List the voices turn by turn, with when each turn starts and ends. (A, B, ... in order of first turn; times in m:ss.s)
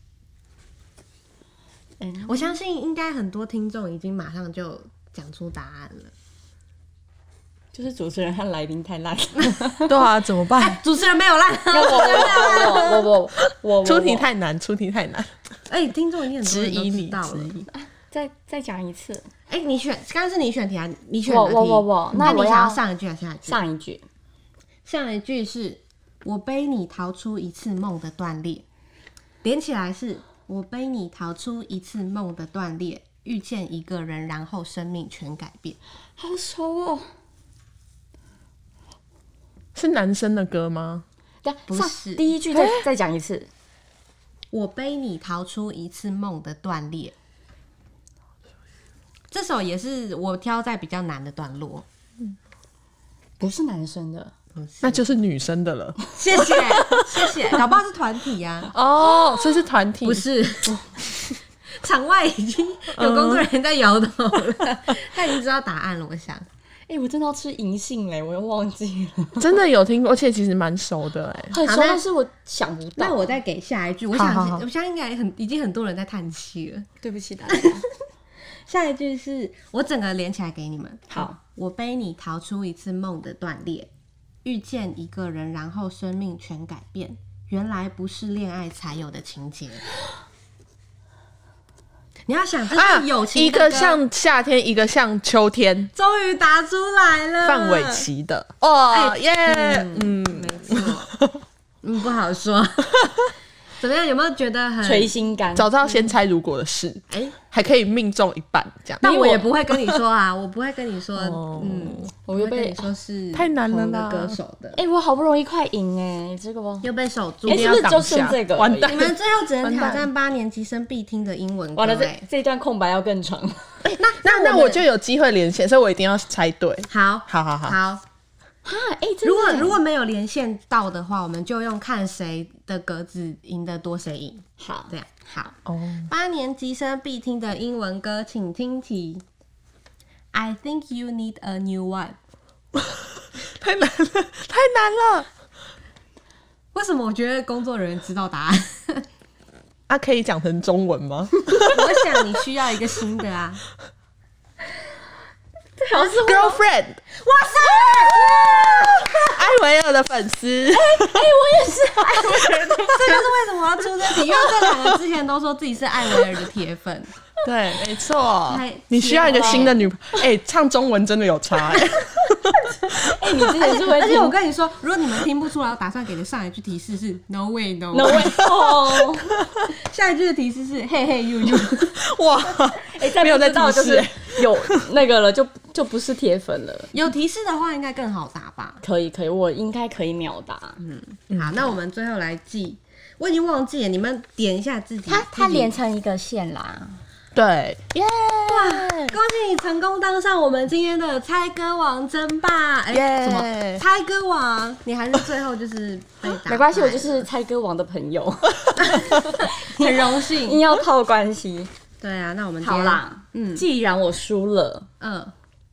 0:02.0-0:02.6 A
0:02.3-0:06.1 B
0:07.7-0:09.9 A
0:09.9-0:10.8 C
0:10.6-0:13.1 B
0:11.7-0:14.3 A
0:13.8-0:15.3 C
0:15.7-0:17.6 B
0:16.4-0:17.7 C
0:17.7-0:19.3 A
0:19.5-0:23.6 B
0:21.2-0:22.8 A
0:23.4-0:24.0 A
0:24.8-0:28.6 B
0:29.4-0:35.8 B
0:36.2-0:37.1 A
0:39.7-0:41.0 C
0:41.4-0:43.5 A
0:41.7-0:42.3 B
0:42.5-0:42.8 C
0:44.5-0:47.1 B
0:49.3-0:51.8 B
0:53.4-0:54.3 A
0:54.5-0:55.1 B
0:54.8-0:57.6 C
0:56.1-0:58.7 B
0:58.7-1:00.2 C
1:00.0-1:00.9 B
1:01.7-1:06.4 B
1:02.9-1:03.5 C
1:06.9-1:09.5 A
1:09.4-1:11.5 C
1:11.5-1:13.3 A
1:11.6-1:12.0 B
1:13.0-1:16.9 B
1:14.1-1:14.6 C
1:17.0-1:17.9 A
1:17.5-1:17.8 B
1:18.7-1:23.9 B
1:21.1-1:21.4 A
1:24.4-1:29.9 B
1:32.3-1:34.0 B
1:32.7-1:35.9 C
1:36.0-1:38.1 B
1:37.4-1:41.4 C
1:38.9-1:41.1 B
1:41.8-1:43.2 B
1:43.8-1:45.1 B
1:44.8-1:45.7 A
1:45.5-1:49.1 C
1:47.1-1:47.3 B
1:49.0-1:54.8 B
1:49.0-1:49.4 A
1:49.7-1:50.0 C
1:51.2-1:52.1 C
1:52.2-1:52.9 A
1:53.3-1:54.4 C
1:54.7-1:56.9 A
1:56.8-1:57.8 B
1:57.4-1:58.9 A
1:57.5-2:00.1 C
1:58.8-2:02.2 B
2:01.8-2:03.8 A
2:03.8-2:07.8 C
2:04.0-2:04.8 B
2:06.9-2:08.0 B
2:08.6-2:09.8 A
2:09.2-2:15.5 B
2:14.6-2:14.9 A
2:15.6-2:16.1 C
2:16.1-2:19.2 B
2:20.3-2:22.2 B
2:22.7-2:25.3 C
2:26.7-2:29.0 B
2:29.9-2:32.0 C
2:31.6-2:33.6 B
2:35.8-2:36.6 A
2:36.0-2:37.0 C
2:37.1-2:39.4 B
2:37.9-2:41.3 C
2:40.7-2:43.2 A
2:42.2-2:43.2 C
2:42.9-2:47.1 B
2:44.1-2:45.0 C
2:47.4-2:53.3 C
2:48.5-2:49.8 B
2:49.2-2:49.7 A
2:52.9-2:54.3 A
2:53.6-2:58.4 B
2:57.9-2:59.3 A
2:58.1-2:59.7 C
2:59.7-3:02.0 B
3:01.5-3:04.8 C
3:02.8-3:06.9 A
3:06.9-3:08.8 B
3:08.8-3:10.8 A
3:10.8-3:15.7 B
3:11.3-3:11.7 C
3:15.1-3:17.0 A
3:17.3-3:19.2 C
3:18.5-3:27.3 B
3:22.9-3:23.8 C
3:26.4-3:31.7 A
3:28.8-3:30.6 B
3:32.0-3:33.6 B
3:32.6-3:34.9 A
3:35.0-3:35.3 B